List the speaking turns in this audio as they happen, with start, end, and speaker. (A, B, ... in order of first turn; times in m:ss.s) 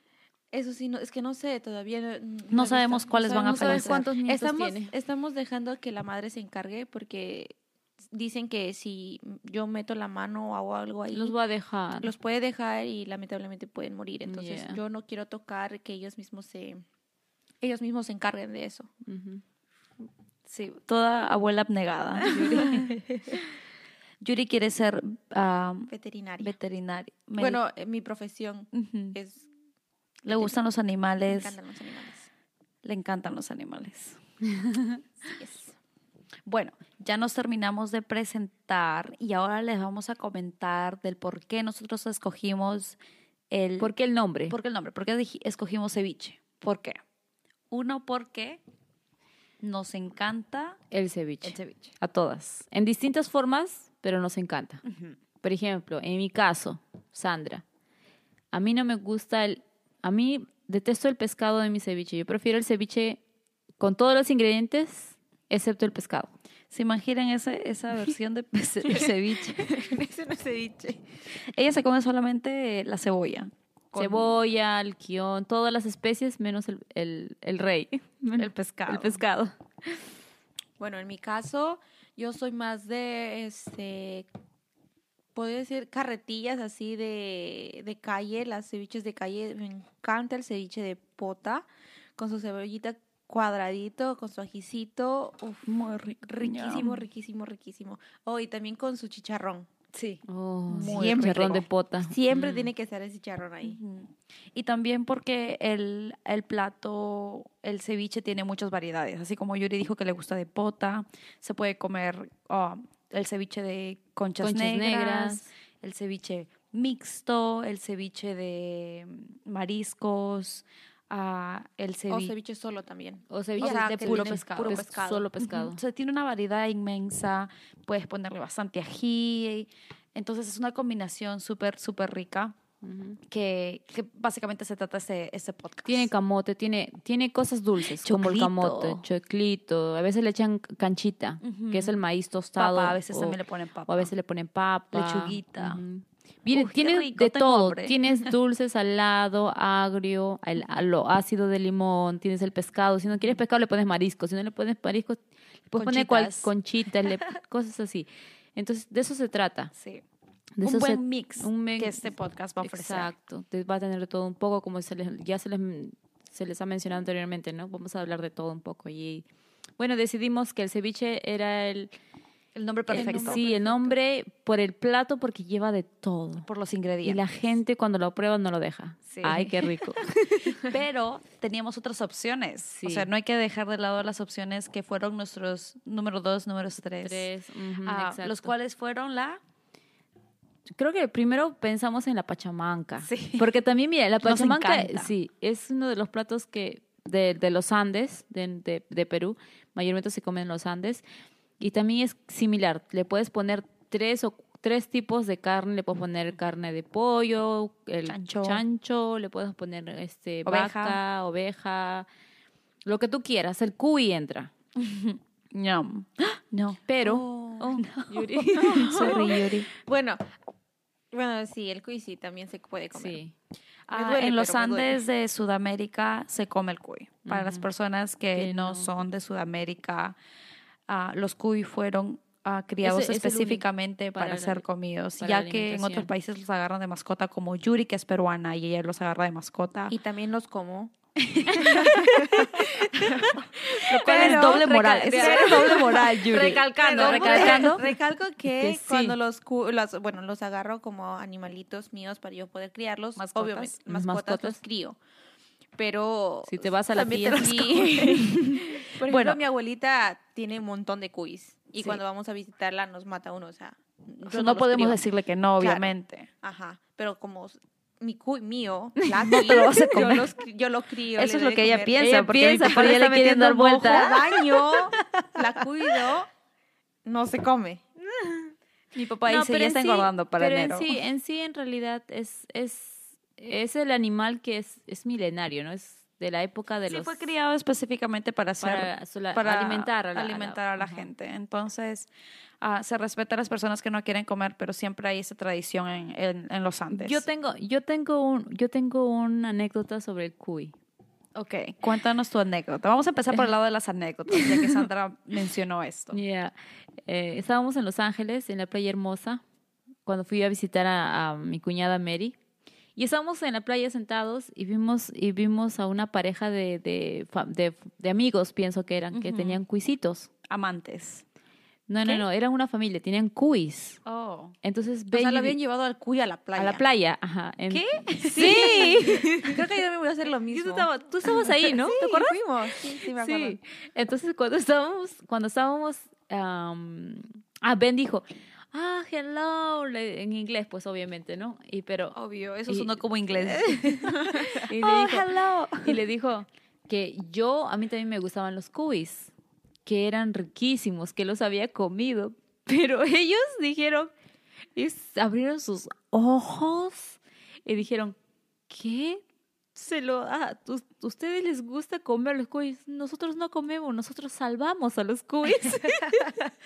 0:00.5-0:07.6 A
0:02.5-0:04.0 B
0:03.4-0:04.9 C
0:08.1-0:11.4 A
0:11.1-0:12.1 C
0:12.0-0:16.8 A
0:14.2-0:14.8 C
0:17.6-0:18.9 A
0:19.0-0:19.4 C
0:20.4-0:23.0 B
0:22.2-0:22.9 A
0:24.2-0:27.6 B
0:25.9-0:26.5 A
0:27.4-0:29.5 A
0:28.7-0:29.2 B
0:30.2-0:31.6 B
0:30.3-0:30.6 A
0:31.2-0:32.3 A
0:32.8-0:34.2 B
0:35.2-0:35.8 A
0:36.4-0:43.0 B
0:43.5-0:43.9 B
0:43.8-0:44.6 C
0:44.5-0:47.0 B
0:47.7-0:48.6 B
0:49.6-0:50.8 B
0:50.9-0:54.8 C
0:51.4-0:51.9 B
0:54.8-0:55.2 B
0:55.4-0:57.6 C
0:58.5-1:03.2 C
1:03.8-1:06.3 C
1:06.7-1:09.9 B
1:08.9-1:11.0 A
1:11.5-1:14.4 B
1:13.9-1:19.5 C
1:18.4-1:19.2 B
1:20.8-1:24.3 A
1:25.3-1:31.6 A
1:32.2-1:35.7 A
1:35.6-1:37.0 B
1:36.3-1:39.7 A
1:39.9-1:41.6 B
1:40.2-1:42.7 C
1:40.8-1:43.8 A
1:43.6-2:02.3 B
1:54.4-1:55.5 C
2:02.1-2:05.3 A
2:03.3-2:05.8 C
2:03.6-2:04.9 B
2:05.4-2:12.6 B
2:12.8-2:13.2 C
2:13.3-2:16.1 B
2:15.8-2:23.4 C
2:17.8-2:19.0 B
2:21.4-2:22.0 B
2:22.6-2:24.1 B
2:23.9-2:39.7 C
2:24.9-2:25.8 B
2:26.5-2:28.0 B
2:35.7-2:36.5 B
2:39.7-2:40.0 B
2:40.6-2:49.2 C
2:40.6-2:43.1 B
2:49.8-2:51.9 C
2:52.5-2:53.4 B
2:52.9-2:56.5 C
2:52.9-2:54.0 A
2:56.4-2:57.2 B
2:57.0-3:00.6 C
2:59.1-3:07.3 B
3:02.7-3:03.1 C
3:07.0-3:08.5 C
3:07.8-3:09.4 B
3:10.8-3:21.0 C
3:13.0-3:13.5 B
3:14.2-3:15.1 B
3:21.6-3:32.1 C
3:28.1-3:28.6 B
3:30.4-3:31.0 B
3:32.8-3:34.5 C
3:34.8-3:36.8 B
3:36.9-3:39.4 C
3:37.0-3:37.7 A
3:37.7-3:39.7 B
3:38.5-3:40.2 A
3:41.1-3:43.2 A
3:42.9-3:43.3 C
3:43.9-3:50.2 B
3:43.9-3:45.0 A
3:47.2-3:47.6 C
3:48.3-3:48.9 C
3:50.9-3:59.9 B
3:52.8-3:54.6 C
3:55.2-3:56.1 C
3:59.9-4:00.9 A
4:01.2-4:08.0 B
4:01.5-4:01.8 C
4:01.5-4:15.0 A
4:03.9-4:07.9 C
4:08.5-4:09.2 C
4:13.2-4:13.8 B
4:13.9-4:14.6 C
4:15.8-4:25.0 A
4:16.4-4:18.2 C
4:17.8-4:19.4 B
4:24.2-4:26.3 B
4:25.6-4:25.9 A
4:26.4-4:32.1 A
4:29.1-4:30.3 B
4:29.2-4:29.7 C
4:31.2-4:36.1 B
4:32.0-4:34.2 C
4:33.8-4:36.3 A
4:37.0-4:37.8 A
4:38.9-4:41.0 B
4:39.2-4:47.3 C
4:46.9-4:52.1 B
4:48.6-4:51.1 C
4:52.6-4:57.2 B
4:56.9-5:00.7 C
5:01.3-5:06.2 B
5:04.3-5:04.8 C
5:06.1-5:06.5 C
5:07.0-5:09.4 C
5:10.0-5:12.4 C
5:13.0-5:20.3 C
5:19.1-5:19.6 B
5:20.5-5:21.2 B
5:21.9-5:24.0 C
5:24.0-5:24.5 B
5:24.6-5:25.6 C
5:25.1-5:26.8 A
5:26.6-5:29.6 C
5:27.7-5:29.1 B
5:28.2-5:33.6 A
5:30.5-5:32.4 C
5:33.0-5:42.2 C
5:42.1-5:46.0 B
5:42.7-5:43.9 C
5:44.5-5:45.3 C
5:45.8-5:49.3 C
5:49.8-5:54.1 C
5:54.7-5:58.2 C
5:58.7-5:59.2 C
5:59.7-6:06.4 C